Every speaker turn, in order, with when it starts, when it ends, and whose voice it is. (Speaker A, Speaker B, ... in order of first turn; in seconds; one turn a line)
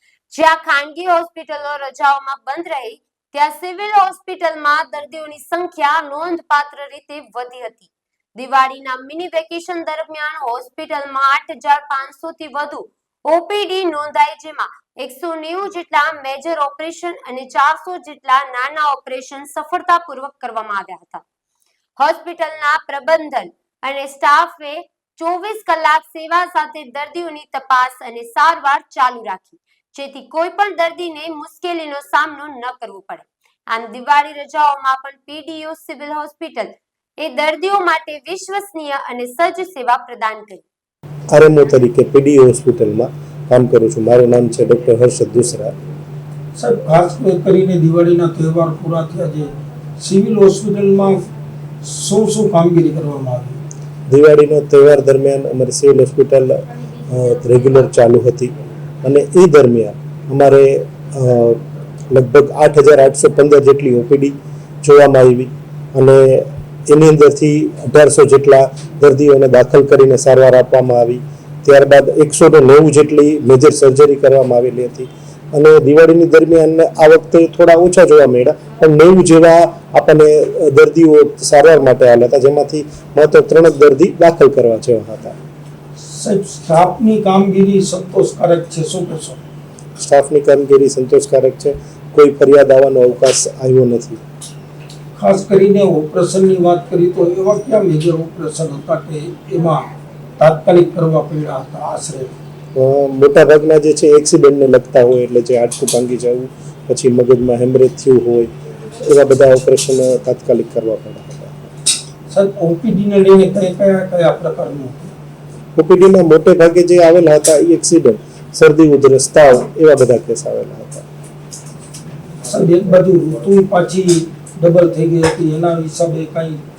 Speaker A: 0.3-21.2
Speaker A: 22.0-40.6
Speaker B: 41.3-45.7
Speaker C: 46.6-51.3
Speaker C: 51.8-53.6
Speaker B: 54.1-58.5
Speaker B: 59.0-85.4
Speaker C: 86.0-89.4
Speaker B: 90.0-94.2
Speaker C: 95.2-102.3
Speaker B: 102.8-111.6
Speaker C: 112.3-115.1
Speaker B: 115.8-121.0
Speaker C: 122.5-126.6